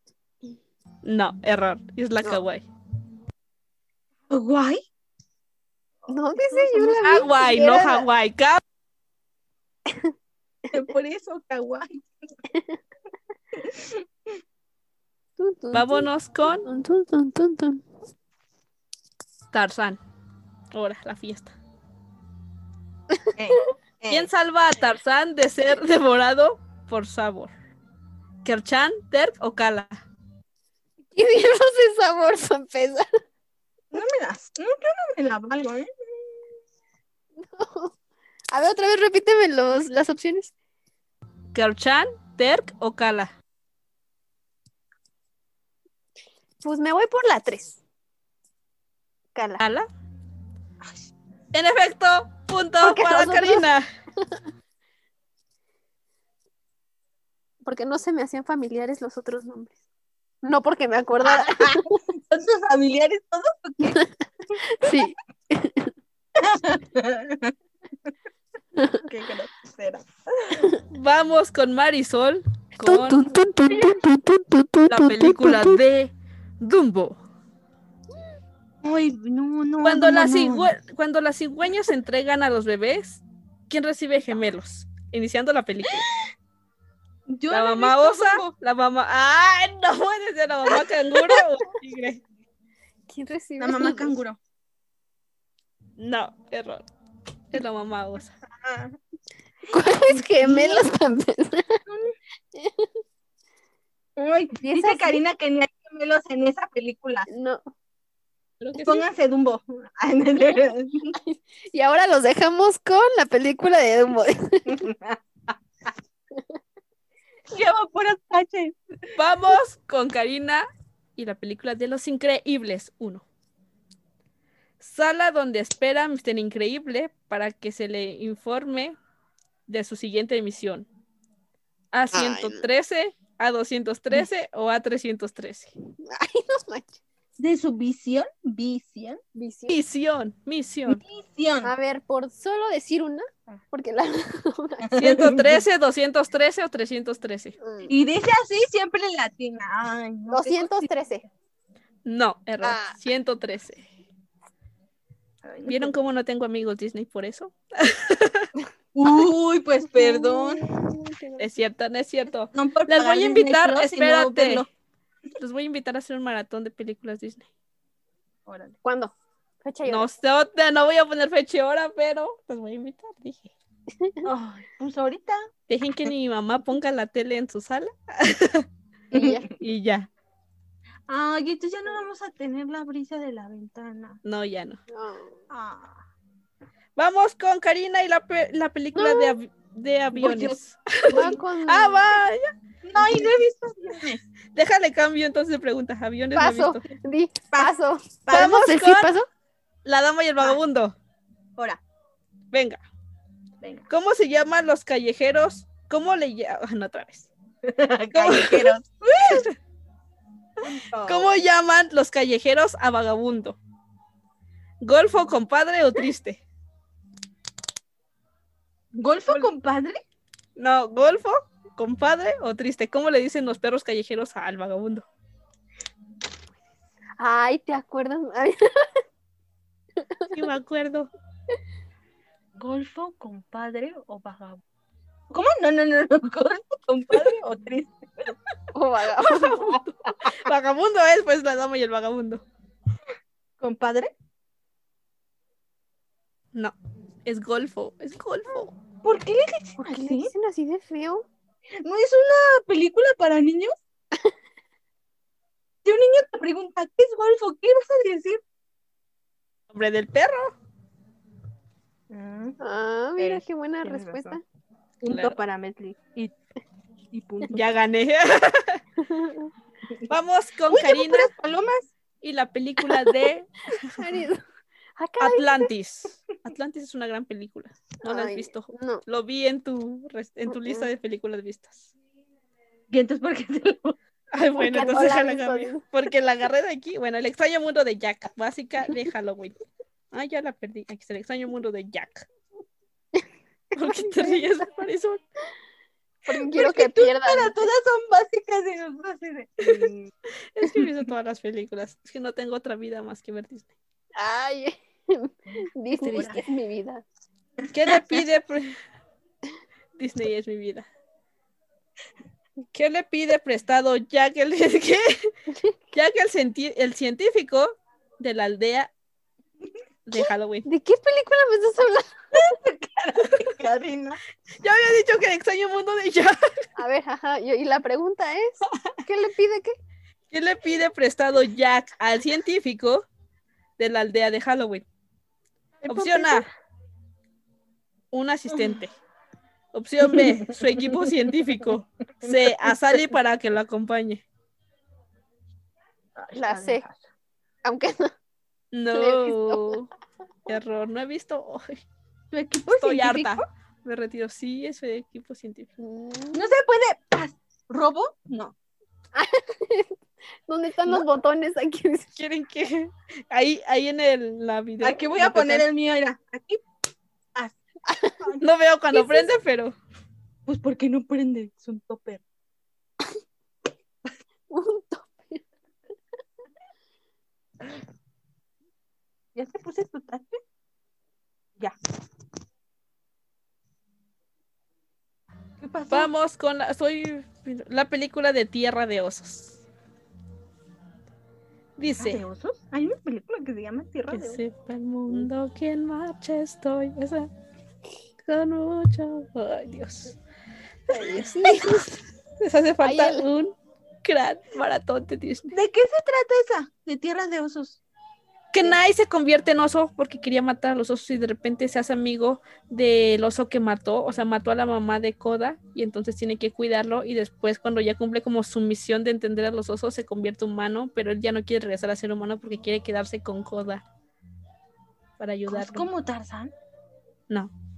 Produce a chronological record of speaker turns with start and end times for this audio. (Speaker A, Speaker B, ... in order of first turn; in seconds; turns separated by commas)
Speaker A: 1.0-2.6, Speaker B: 4.3-4.8, Speaker C: 6.1-8.0, Speaker B: 6.3-7.3, Speaker A: 7.0-8.6, Speaker B: 10.7-12.0, Speaker B: 13.5-14.0, Speaker C: 15.4-17.8, Speaker A: 15.7-16.7, Speaker A: 19.5-20.0, Speaker A: 20.7-21.5, Speaker B: 23.4-24.3, Speaker A: 24.1-27.5, Speaker A: 28.4-30.0, Speaker C: 31.1-33.1, Speaker B: 33.9-35.9, Speaker C: 37.4-37.9, Speaker C: 38.5-40.5, Speaker A: 41.5-43.3, Speaker C: 46.6-47.8, Speaker C: 49.3-49.6, Speaker A: 49.6-49.9, Speaker A: 51.5-53.8, Speaker C: 52.8-53.7, Speaker C: 57.6-59.7, Speaker C: 60.4-62.0, Speaker B: 61.2-64.0, Speaker C: 63.9-65.9, Speaker B: 66.3-67.5, Speaker C: 68.8-69.0, Speaker B: 69.0-70.7, Speaker A: 70.9-73.3, Speaker C: 72.8-75.8, Speaker A: 74.9-77.2, Speaker B: 78.8-80.7, Speaker A: 79.8-86.1, Speaker B: 87.3-88.5, Speaker A: 87.5-92.2, Speaker B: 90.7-91.4, Speaker C: 93.1-94.2, Speaker B: 93.6-94.4, Speaker A: 96.0-96.8, Speaker A: 97.5-98.3, Speaker B: 98.5-98.9, Speaker C: 99.7-101.8, Speaker B: 100.0-100.8, Speaker B: 101.9-102.1, Speaker C: 102.5-102.9, Speaker B: 104.2-107.3, Speaker C: 104.6-105.2, Speaker C: 107.3-107.6, Speaker A: 108.6-109.0, Speaker B: 108.8-111.2, Speaker C: 111.1-114.9, Speaker B: 114.7-115.9, Speaker B: 117.5-118.8, Speaker A: 119.1-123.2, Speaker A: 124.8-128.9, Speaker A: 129.7-130.9, Speaker A: 131.9-135.7, Speaker C: 132.1-132.6, Speaker C: 136.0-137.0, Speaker B: 137.4-139.2, Speaker C: 139.3-139.8, Speaker A: 139.7-141.0, Speaker B: 140.9-141.7, Speaker C: 141.6-145.0, Speaker B: 144.8-145.6, Speaker A: 144.9-147.6, Speaker C: 147.6-147.9, Speaker B: 147.9-150.9, Speaker C: 150.3-151.2, Speaker A: 152.0-153.8, Speaker C: 152.6-152.9, Speaker B: 155.4-156.0, Speaker A: 155.7-158.5, Speaker B: 158.9-160.7, Speaker C: 159.9-161.5, Speaker A: 161.4-164.7, Speaker B: 162.5-164.7, Speaker A: 165.4-167.5, Speaker B: 168.4-168.8, Speaker C: 168.8-170.1, Speaker A: 169.8-173.5, Speaker B: 174.2-175.4, Speaker A: 175.7-178.7, Speaker C: 179.1-179.5, Speaker B: 179.1-179.5, Speaker A: 179.6-180.1, Speaker B: 181.1-184.2, Speaker A: 184.2-184.8, Speaker C: 184.9-185.4, Speaker B: 185.5-186.0, Speaker A: 187.0-193.2, Speaker C: 188.9-189.3, Speaker B: 190.1-190.6, Speaker B: 191.1-191.4, Speaker C: 191.1-192.0, Speaker B: 192.8-194.2, Speaker A: 194.5-196.8, Speaker C: 196.3-199.3, Speaker B: 198.3-198.6, Speaker A: 198.3-199.1, Speaker A: 199.8-200.9, Speaker A: 202.5-202.8, Speaker B: 203.6-203.9, Speaker A: 203.9-207.3, Speaker B: 207.6-209.5, Speaker A: 208.1-209.5, Speaker B: 210.6-211.3, Speaker A: 211.1-213.6, Speaker A: 214.8-216.4, Speaker B: 218.9-220.0, Speaker A: 220.6-225.1, Speaker C: 227.2-228.9, Speaker A: 230.3-231.1, Speaker B: 232.6-234.6, Speaker B: 235.3-238.3, Speaker C: 238.7-239.8, Speaker A: 239.2-242.4, Speaker B: 243.6-244.1, Speaker A: 246.5-248.8, Speaker B: 249.0-250.3, Speaker C: 249.8-251.2, Speaker B: 251.8-253.7, Speaker B: 255.8-258.4, Speaker A: 259.7-260.5, Speaker B: 262.1-262.6, Speaker C: 262.6-264.4, Speaker B: 263.2-264.4, Speaker B: 265.0-266.3, Speaker A: 265.1-265.4, Speaker B: 267.1-267.7, Speaker A: 267.5-268.8, Speaker C: 269.0-269.5, Speaker A: 270.1-271.3, Speaker B: 270.7-271.9, Speaker A: 272.2-274.1, Speaker C: 272.9-273.1, Speaker C: 273.9-274.4, Speaker C: 275.0-275.7, Speaker A: 275.2-281.9, Speaker C: 278.0-279.0, Speaker C: 280.5-280.9, Speaker B: 282.9-283.9, Speaker A: 284.3-289.6, Speaker C: 284.6-285.8, Speaker A: 290.1-292.3, Speaker A: 293.8-295.2, Speaker C: 293.8-294.5, Speaker C: 296.3-297.6, Speaker B: 296.3-300.1, Speaker A: 300.5-303.7, Speaker C: 304.1-307.0, Speaker A: 306.0-306.3, Speaker B: 306.1-306.4, Speaker A: 307.7-308.7, Speaker A: 310.0-310.9, Speaker A: 312.7-315.3, Speaker A: 315.9-318.9, Speaker A: 320.1-320.6, Speaker C: 320.6-322.1, Speaker B: 322.3-324.2, Speaker A: 324.6-326.4, Speaker C: 326.8-329.8, Speaker A: 330.3-333.1, Speaker A: 333.8-334.8, Speaker B: 335.8-336.2, Speaker A: 335.9-336.4, Speaker C: 335.9-336.4, Speaker A: 338.1-338.9, Speaker A: 339.7-344.2, Speaker B: 342.2-342.7, Speaker B: 346.1-347.0, Speaker C: 346.3-346.8, Speaker C: 347.6-348.1, Speaker A: 348.7-349.9, Speaker C: 348.9-349.8, Speaker A: 350.5-351.8, Speaker B: 352.3-353.4, Speaker A: 352.7-355.7, Speaker C: 355.8-356.5, Speaker B: 356.3-358.5, Speaker C: 359.1-359.9, Speaker C: 360.5-362.1, Speaker A: 362.2-365.6, Speaker B: 364.8-366.6, Speaker C: 367.9-368.2, Speaker B: 368.1-368.4, Speaker A: 368.4-369.8, Speaker C: 368.9-369.3, Speaker B: 370.4-372.2, Speaker C: 374.5-375.4, Speaker B: 379.3-380.4, Speaker B: 385.6-386.1, Speaker A: 385.9-389.6, Speaker A: 391.8-392.2, Speaker B: 392.0-394.4, Speaker A: 394.1-397.3, Speaker A: 398.2-400.1, Speaker C: 400.9-401.9, Speaker A: 401.1-405.6, Speaker C: 402.8-403.2, Speaker B: 405.5-407.8, Speaker A: 408.5-423.8, Speaker A: 425.2-425.9, Speaker B: 425.5-426.5